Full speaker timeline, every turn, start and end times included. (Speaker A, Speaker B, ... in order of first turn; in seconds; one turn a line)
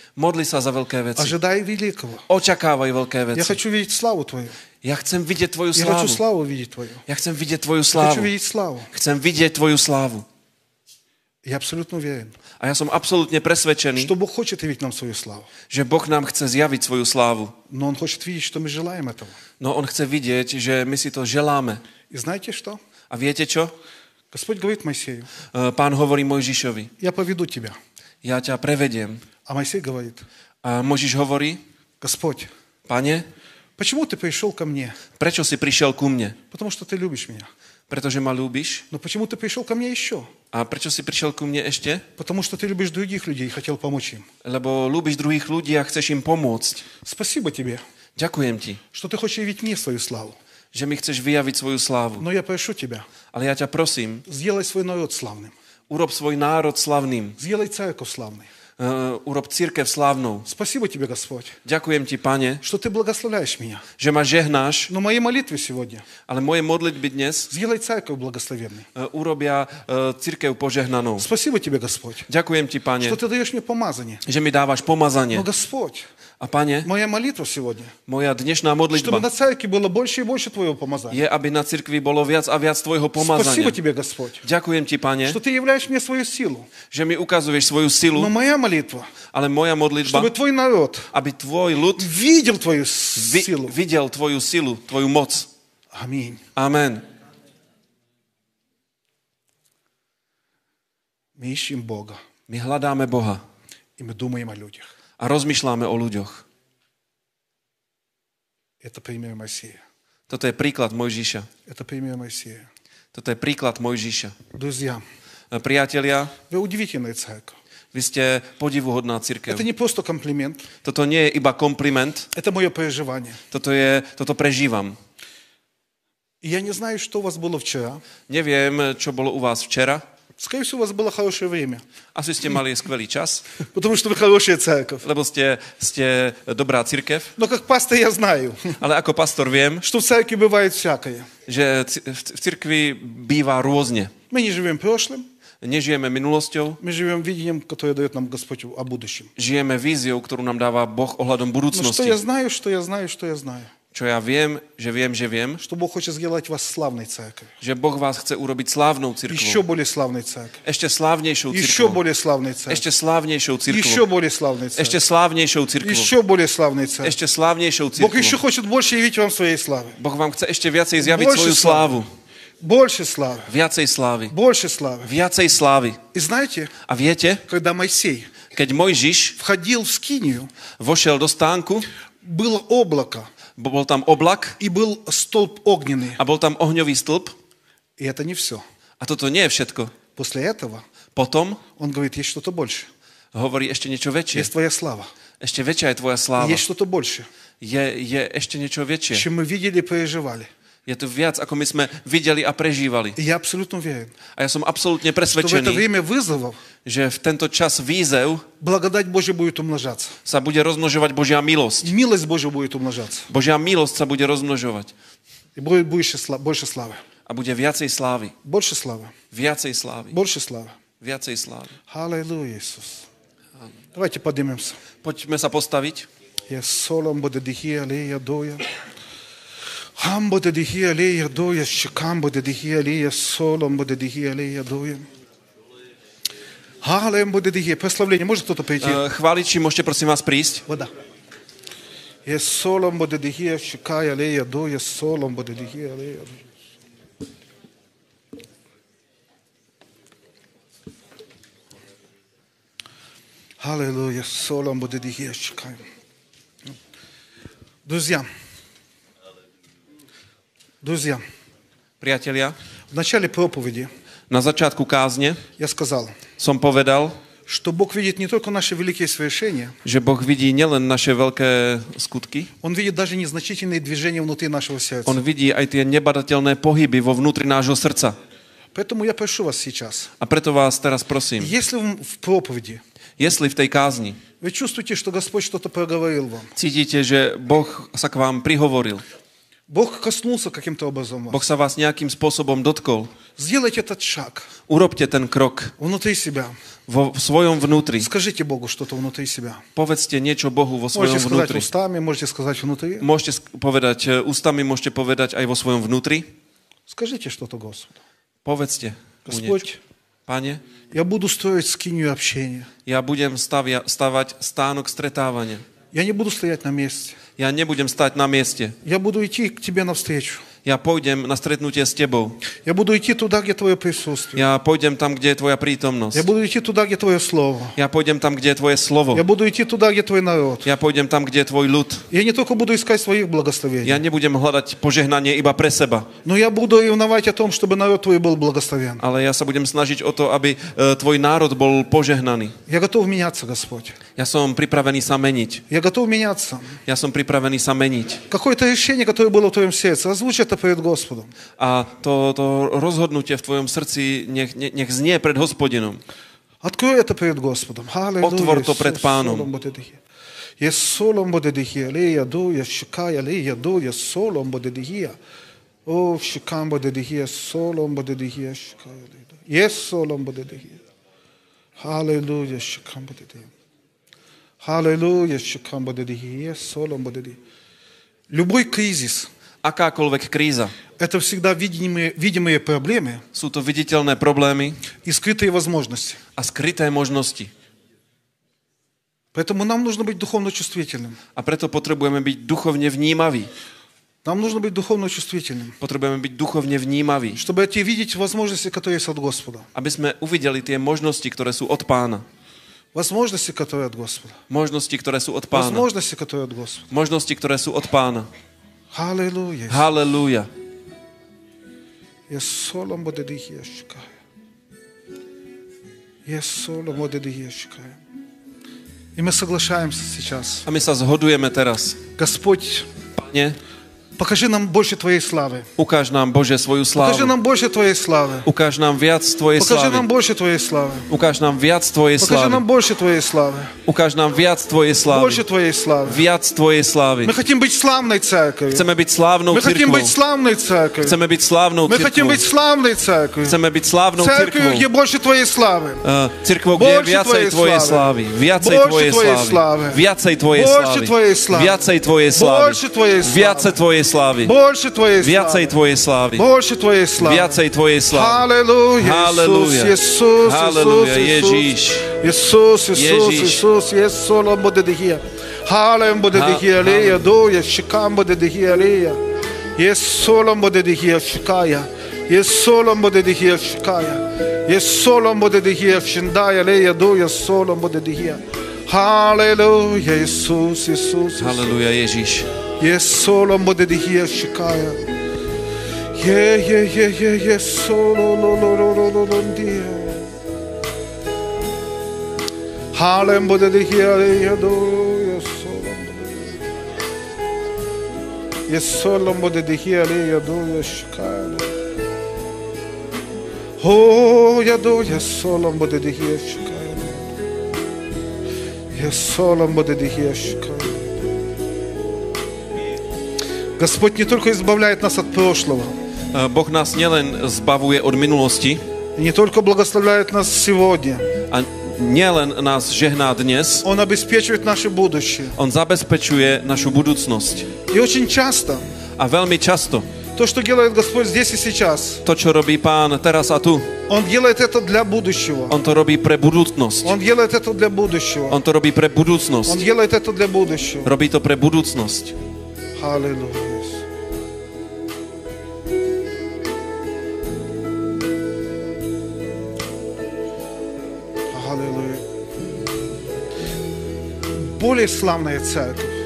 Speaker A: 0.2-1.4
Speaker B: 1.2-2.3
Speaker A: 2.3-3.6
Speaker B: 3.3-4.6
Speaker A: 4.8-6.2
Speaker B: 5.8-7.0
Speaker A: 7.1-8.3
Speaker B: 8.0-8.9
Speaker A: 8.9-10.3
Speaker B: 11.4-12.4
Speaker A: 12.6-14.1
Speaker B: 14.0-15.5
Speaker A: 15.7-17.6
Speaker B: 17.7-19.4
Speaker A: 19.6-21.8
Speaker B: 22.1-22.8
Speaker A: 23.1-23.7
Speaker B: 24.3-25.3
Speaker A: 25.5-26.9
Speaker B: 27.0-27.8
Speaker A: 28.2-29.2
Speaker B: 29.4-30.3
Speaker A: 30.6-31.6
Speaker B: 32.0-32.5
Speaker A: 32.9-33.3
Speaker B: 33.8-35.0
Speaker A: 35.2-36.4
Speaker B: 36.5-37.5
Speaker A: 37.9-38.9
Speaker B: 38.9-40.3
Speaker A: 40.5-42.0
Speaker B: 42.2-44.3
Speaker A: 44.4-46.9
Speaker B: 47.0-47.8
Speaker A: 48.2-48.8
Speaker B: 48.9-50.4
Speaker A: 50.7-52.2
Speaker B: 52.2-53.1
Speaker A: 53.3-54.2
Speaker B: 54.3-55.5
Speaker A: 55.9-57.4
Speaker B: 57.4-58.5
Speaker A: 58.8-60.5
Speaker B: 60.5-61.6
Speaker A: 61.6-62.6
Speaker B: 62.6-63.9
Speaker A: 64.0-64.9
Speaker B: 64.9-66.1
Speaker A: 66.3-67.5
Speaker B: 67.5-68.9
Speaker A: 69.0-71.3
Speaker B: 71.2-72.3
Speaker A: 72.3-73.2
Speaker B: 73.0-74.2
Speaker A: 74.3-75.5
Speaker B: 75.3-76.1
Speaker A: 76.4-76.9
Speaker B: 76.8-77.9
Speaker A: 78.1-79.3
Speaker B: 78.9-81.2
Speaker A: 81.1-83.8
Speaker B: 83.2-84.4
Speaker A: 84.4-85.4
Speaker B: 85.3-86.7
Speaker A: 86.9-88.3
Speaker B: 88.1-89.1
Speaker A: 89.3-90.3
Speaker B: 90.0-91.1
Speaker A: 91.1-92.1
Speaker B: 92.0-93.8
Speaker A: 93.2-95.5
Speaker B: 95.9-96.4
Speaker A: 96.6-97.0
Speaker B: 101.4-102.2
Speaker A: 102.5-103.4
Speaker B: 104.0-104.9
Speaker A: 105.2-106.5
Speaker B: 108.8-109.8
Speaker A: 110.3-111.5
Speaker B: 111.7-112.7
Speaker A: 113.1-114.3
Speaker B: 114.5-115.0
Speaker A: 115.5-116.3
Speaker B: 116.5-117.6
Speaker A: 117.9-119.7
Speaker B: 119.5-120.7
Speaker A: 120.8-122.3
Speaker B: 122.3-123.4
Speaker A: 123.5-125.0
Speaker B: 126.4-128.0
Speaker A: 128.3-130.0
Speaker B: 130.4-131.8
Speaker A: 132.2-133.5
Speaker B: 133.7-135.1
Speaker A: 135.0-137.3
Speaker B: 137.4-138.8
Speaker A: 138.8-139.8
Speaker B: 139.8-141.3
Speaker A: 141.5-144.1
Speaker B: 144.3-145.3
Speaker A: 145.6-146.8
Speaker B: 146.8-149.3
Speaker A: 149.4-152.2
Speaker B: 151.7-153.7
Speaker A: 153.9-155.6
Speaker B: 155.6-157.5
Speaker A: 157.6-159.6
Speaker B: 159.3-160.6
Speaker A: 160.7-162.0
Speaker B: 161.5-162.9
Speaker A: 162.7-164.1
Speaker B: 163.7-165.0
Speaker A: 164.8-166.1
Speaker B: 165.8-167.2
Speaker A: 167.0-168.4
Speaker B: 168.0-170.0
Speaker A: 170.0-172.1
Speaker B: 171.0-172.0
Speaker B: 172.6-173.5
Speaker A: 173.5-174.3
Speaker B: 174.3-175.1
Speaker A: 175.1-176.0
Speaker B: 176.1-176.7
Speaker A: 176.9-177.4
Speaker B: 177.5-178.3
Speaker A: 178.5-179.4
Speaker B: 179.4-180.5
Speaker A: 180.8-181.9
Speaker B: 182.2-183.3
Speaker A: 183.6-184.6
Speaker B: 184.6-186.2
Speaker A: 186.2-187.3
Speaker B: 188.0-188.6
Speaker A: 189.0-189.9
Speaker B: 190.2-190.8
Speaker A: 191.2-191.6
Speaker B: 191.7-192.9
Speaker A: 193.3-194.5
Speaker B: 194.3-195.1
Speaker A: 195.4-196.7
Speaker B: 196.4-197.3
Speaker A: 197.6-199.3
Speaker B: 199.1-200.5
Speaker A: 200.9-203.2
Speaker B: 203.2-204.2
Speaker A: 204.3-205.9
Speaker B: 205.3-206.6
Speaker A: 206.8-208.5
Speaker B: 208.6-210.2
Speaker A: 210.2-211.9
Speaker B: 211.8-213.3
Speaker A: 213.3-214.9
Speaker B: 215.6-217.0
Speaker A: 217.3-218.3
Speaker B: 218.4-219.2
Speaker A: 219.3-220.2
Speaker B: 220.1-220.8
Speaker A: 221.0-221.7
Speaker B: 221.9-223.1
Speaker B: 223.9-224.8
Speaker A: 225.0-226.1
Speaker B: 226.5-228.7
Speaker B: 230.0-235.1
Speaker B: 236.8-239.0
Speaker A: 238.8-240.7
Speaker B: 242.3-246.4
Speaker B: 253.6-255.8
Speaker B: 257.9-258.3
Speaker B: 260.8-261.2
Speaker A: 262.0-262.6
Speaker B: 262.9-263.9
Speaker A: 264.3-265.4
Speaker B: 265.6-266.2
Speaker A: 266.4-267.2
Speaker B: 267.5-269.8
Speaker A: 269.8-272.5
Speaker B: 272.6-275.2
Speaker A: 275.1-278.2
Speaker B: 278.7-280.1
Speaker A: 280.2-281.5
Speaker B: 281.4-282.8
Speaker A: 283.2-284.2
Speaker B: 284.4-286.5
Speaker A: 286.6-289.0
Speaker B: 289.7-291.4
Speaker A: 291.3-293.1
Speaker B: 293.4-294.5
Speaker A: 294.7-295.8
Speaker B: 295.8-296.6
Speaker A: 296.9-298.1
Speaker B: 298.0-299.6
Speaker A: 299.8-301.7
Speaker B: 300.9-303.1
Speaker A: 303.0-306.3
Speaker B: 306.9-308.0
Speaker A: 308.4-309.6
Speaker B: 309.3-309.8
Speaker A: 310.3-310.6
Speaker B: 310.9-312.7
Speaker A: 312.9-315.6
Speaker B: 315.9-317.2
Speaker A: 317.4-318.8
Speaker B: 318.8-320.5
Speaker A: 320.6-322.4
Speaker B: 322.6-324.4
Speaker A: 324.4-326.3
Speaker B: 326.1-327.8
Speaker A: 327.8-329.2
Speaker B: 329.1-330.7
Speaker A: 330.6-332.1
Speaker B: 332.1-334.0
Speaker A: 333.8-336.1
Speaker B: 336.2-339.0
Speaker A: 339.0-342.6
Speaker B: 342.7-344.0
Speaker A: 344.2-345.6
Speaker B: 345.7-346.8
Speaker A: 346.9-348.2
Speaker B: 348.3-351.3
Speaker A: 351.6-356.0
Speaker B: 356.6-360.0
Speaker A: 358.2-359.5
Speaker B: 360.6-365.2
Speaker B: 365.9-370.8
Speaker B: 371.8-373.5
Speaker B: 374.6-377.4
Speaker B: 378.3-379.3
Speaker A: 379.6-380.8
Speaker B: 381.0-383.2
Speaker A: 383.3-384.8
Speaker B: 385.0-386.2
Speaker A: 386.4-387.5
Speaker B: 389.3-391.2
Speaker A: 391.4-393.5
Speaker B: 394.2-395.8
Speaker A: 395.8-397.4
Speaker B: 397.4-399.7
Speaker A: 399.8-402.2
Speaker B: 402.9-404.4
Speaker A: 404.5-405.9
Speaker B: 405.5-406.9
Speaker A: 406.9-408.3
Speaker B: 408.9-409.9
Speaker A: 409.7-410.5
Speaker B: 412.3-414.1
Speaker B: 416.3-418.0
Speaker B: 419.2-420.7
Speaker A: 420.7-422.0
Speaker B: 422.2-422.9
Speaker A: 423.1-423.6
Speaker B: 424.2-425.7
Speaker A: 425.8-427.4
Speaker B: 427.0-428.5
Speaker A: 428.5-430.1
Speaker B: 429.6-431.1
Speaker A: 431.1-432.6
Speaker B: 432.2-433.8
Speaker A: 433.9-435.4
Speaker B: 435.1-436.2
Speaker A: 436.1-437.4
Speaker B: 437.2-438.9
Speaker A: 438.7-440.2
Speaker B: 439.5-441.2
Speaker A: 441.0-442.4
Speaker B: 441.9-443.6
Speaker A: 443.4-444.9
Speaker B: 444.2-446.0
Speaker A: 446.0-454.6
Speaker B: 446.7-450.0
Speaker B: 450.5-451.8
Speaker B: 452.3-453.8
Speaker B: 454.4-455.8
Speaker A: 455.2-456.5
Speaker B: 456.4-457.6
Speaker A: 457.2-458.5
Speaker B: 458.1-469.2
Speaker A: 459.0-462.1
Speaker A: 462.9-463.6
Speaker A: 466.3-467.2
Speaker B: 469.8-481.7
Speaker A: 481.4-482.5
Speaker B: 482.8-485.0
Speaker B: 486.1-490.3
Speaker B: 492.9-496.6
Speaker B: 498.7-501.8
Speaker B: 503.8-507.3
Speaker B: 508.9-511.2
Speaker B: 513.8-516.0
Speaker A: 516.3-518.8
Speaker B: 519.2-521.3
Speaker A: 521.5-523.9
Speaker B: 523.8-525.6
Speaker A: 525.6-527.7
Speaker B: 527.9-528.8
Speaker A: 529.2-530.1
Speaker B: 530.4-532.2
Speaker A: 532.2-533.9
Speaker B: 534.1-535.8
Speaker A: 535.7-537.1
Speaker B: 537.0-538.6
Speaker A: 538.5-539.8
Speaker B: 539.7-541.1
Speaker A: 541.0-542.4
Speaker B: 543.0-544.0
Speaker B: 551.5-552.2
Speaker B: 554.5-556.2